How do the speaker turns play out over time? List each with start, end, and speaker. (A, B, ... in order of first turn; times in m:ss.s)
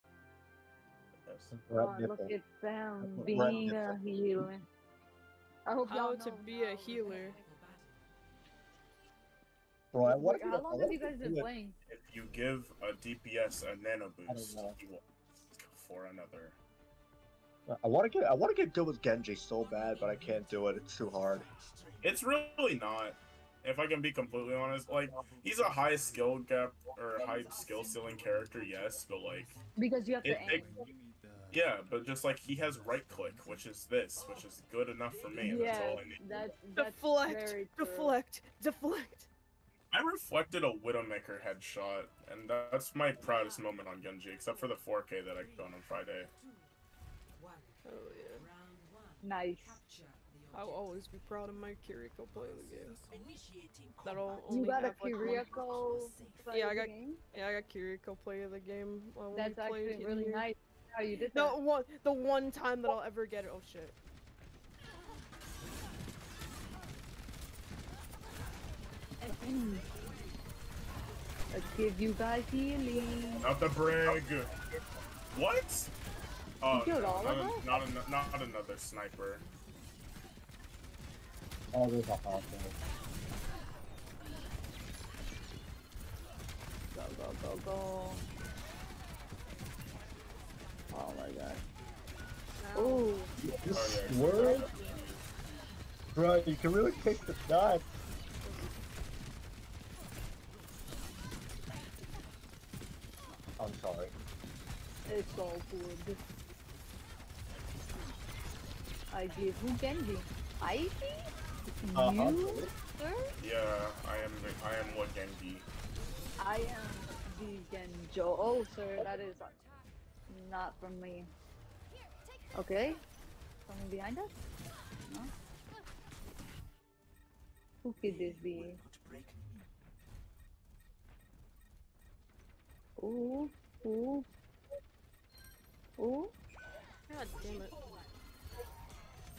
0:01.2-0:01.5 A
0:01.5-0:02.4 B
0:01.8-0:04.7 C
0:03.0-0:04.0 B
0:05.7-0:07.4 C
0:05.9-0:07.4 D
0:09.9-0:11.5 B
0:10.0-0:11.8 C
0:11.9-0:16.6 A
0:14.3-0:14.8 B
0:17.7-0:21.5 B
0:22.0-0:29.6 A
0:29.8-0:30.8 C
0:30.2-0:30.7 A
0:31.5-0:36.2 A
0:35.4-0:38.2 C
0:36.8-0:39.3 D
0:39.9-0:46.3 A
0:47.8-0:48.5 D
0:49.2-0:49.8 C
0:50.5-0:53.0 D
0:54.0-0:55.5 D
0:54.5-0:57.2 C
0:56.5-1:00.5 D
0:59.3-1:01.6 C
1:01.3-1:04.0 D
1:09.2-1:09.8 C
1:11.5-1:13.5 C
1:13.4-1:14.5 A
1:15.3-1:15.9 A
1:16.6-1:19.4 A
1:16.7-1:17.7 C
1:21.7-1:22.8 B
1:26.9-1:28.2 C
1:30.9-1:31.6 C
1:32.6-1:33.2 D
1:32.8-1:33.3 C
1:33.4-1:34.7 B
1:33.7-1:35.2 A
1:34.4-1:34.7 D
1:36.2-1:37.8 B
1:38.4-1:38.7 D
1:43.6-1:44.1 B
1:45.1-1:46.2 C
1:49.1-1:51.3 C
1:51.8-1:53.3 C
1:52.0-1:52.7 B
1:53.4-1:55.7 A
1:56.4-1:59.6 C
2:00.3-2:01.3 C
2:02.6-2:03.0 C
2:03.7-2:04.3 C
2:07.8-2:08.8 C
2:13.0-2:14.3 C
2:16.0-2:16.3 C
2:17.1-2:17.8 D